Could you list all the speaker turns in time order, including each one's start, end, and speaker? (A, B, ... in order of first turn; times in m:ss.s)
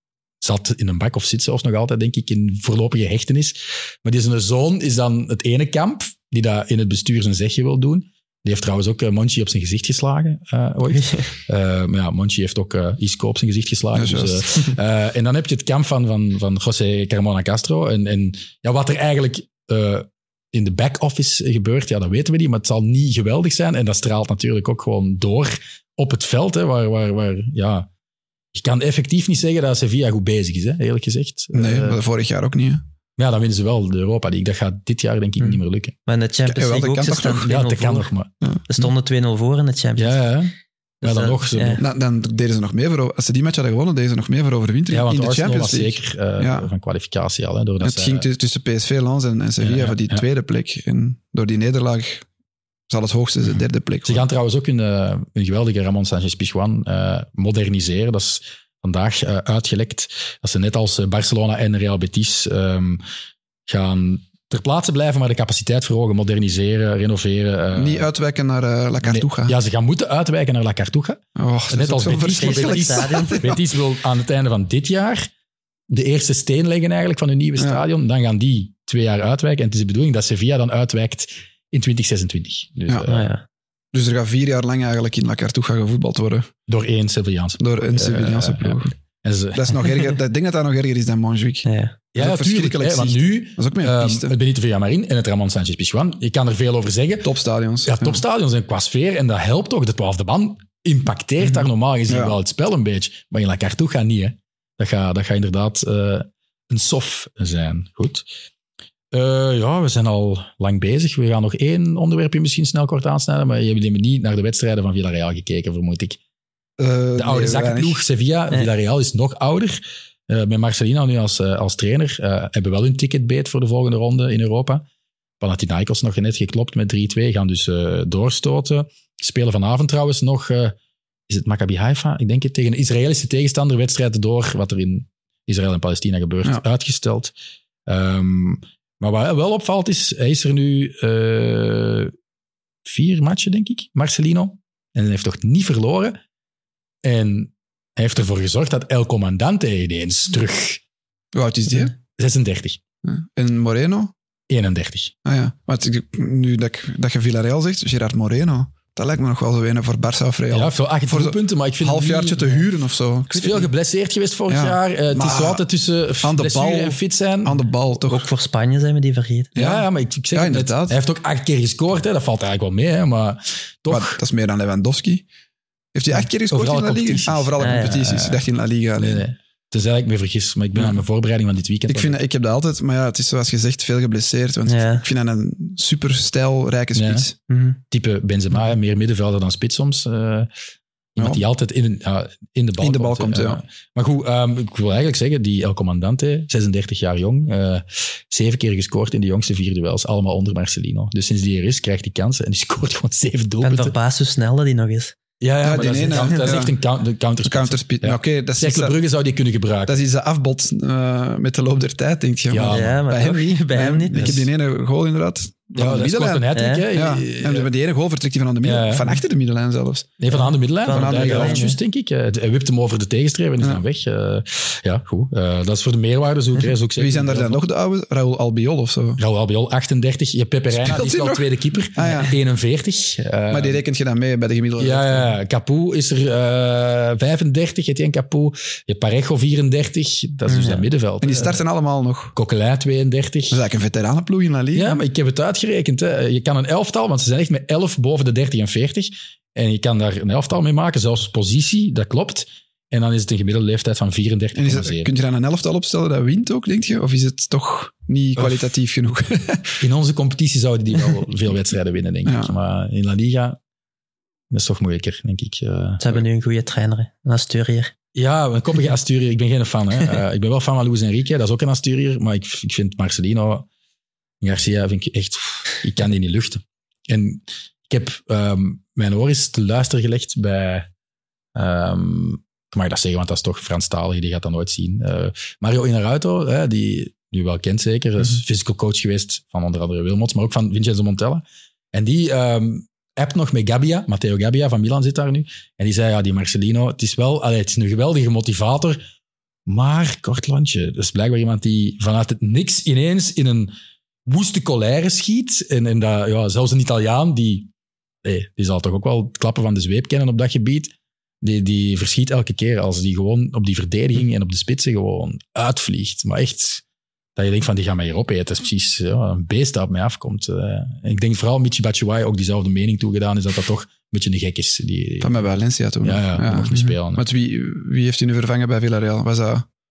0:00.4-0:27.9 A
0:10.9-0:11.3 B
0:13.9-0:14.7 C
0:28.5-0:32.0 A
0:31.5-0:32.8 C
0:33.2-0:36.0 A
0:35.4-0:38.1 B
0:36.5-0:37.5 C
0:37.4-0:38.9 A
0:38.7-0:40.2 B
0:40.0-0:41.8 A
0:41.0-0:41.8 B
0:41.8-0:46.7 C
0:44.9-0:48.3 A
0:47.8-0:52.2 C
0:49.6-0:50.2 A
0:52.9-0:54.3 C
0:54.0-1:03.0 A
1:03.7-1:08.1 A
1:07.7-1:09.6 C
1:09.0-1:15.3 A
1:11.4-1:13.6 C
1:12.3-1:13.5 B
1:15.9-1:23.3 A
1:23.1-1:23.4 B
1:23.9-1:26.5 C
1:26.7-1:29.9 A
1:27.6-1:28.9 C
1:29.5-1:34.4 C
1:31.6-1:32.0 B
1:32.1-1:37.3 A
1:37.2-1:38.2 C
1:37.8-1:48.2 A
1:42.1-1:42.4 C
1:49.1-1:56.2 A
1:56.8-1:58.0 C
1:57.2-2:04.8 A
2:05.4-2:10.8 A
2:11.3-2:17.3 A
2:17.9-2:22.1 A
2:22.9-2:26.2 A
2:27.0-2:30.8 A
2:31.3-2:31.9 C
2:32.1-2:32.8 A
2:33.0-2:34.1 C
2:34.5-2:35.1 A
2:35.2-2:43.7 C
2:40.5-2:42.7 A
2:43.3-2:47.6 A
2:44.5-2:45.6 C
2:46.2-2:48.3 C
2:48.0-2:49.5 B
2:49.6-2:51.0 C
2:49.6-2:54.2 A
2:53.9-2:55.3 C
2:55.9-2:59.2 C
2:56.5-2:58.4 A
2:57.6-2:58.0 B
2:59.0-3:02.2 A
3:00.8-3:01.0 C
3:01.9-3:07.3 C
3:04.7-3:05.0 B
3:07.0-3:07.3 A
3:07.5-3:07.8 B
3:07.9-3:10.5 A
3:11.2-3:23.9 A
3:11.2-3:11.4 C
3:12.8-3:13.6 C
3:23.6-3:25.2 B
3:25.4-3:30.0 A
3:25.6-3:26.7 C
3:27.4-3:29.0 C
3:29.9-3:41.7 C
3:32.5-3:33.0 A
3:32.6-3:34.4 B
3:34.2-3:34.5 A
3:35.8-3:37.7 A
3:36.5-3:36.9 B
3:38.6-3:39.2 A
3:40.2-3:47.6 A
3:40.3-3:41.8 B
3:47.0-3:49.2 C
3:49.2-3:53.8 A
3:50.7-3:52.4 C
3:53.5-3:55.3 C
3:54.8-4:01.6 A
4:00.5-4:00.9 B
4:01.2-4:02.4 C
4:02.4-4:03.6 A
4:03.5-4:05.0 C
4:04.7-4:15.1 A
4:14.6-4:19.8 C
4:18.4-4:18.7 A
4:19.8-4:23.6 A
4:22.2-4:22.5 C
4:24.5-4:26.2 A
4:26.0-4:27.9 B
4:28.2-4:33.7 A
4:34.4-4:40.9 A
4:41.6-4:59.0 A
4:59.7-5:03.7 A
5:04.3-5:07.7 A
5:08.2-5:16.8 A
5:17.4-5:25.4 A
5:25.2-5:29.7 C
5:26.0-5:27.2 A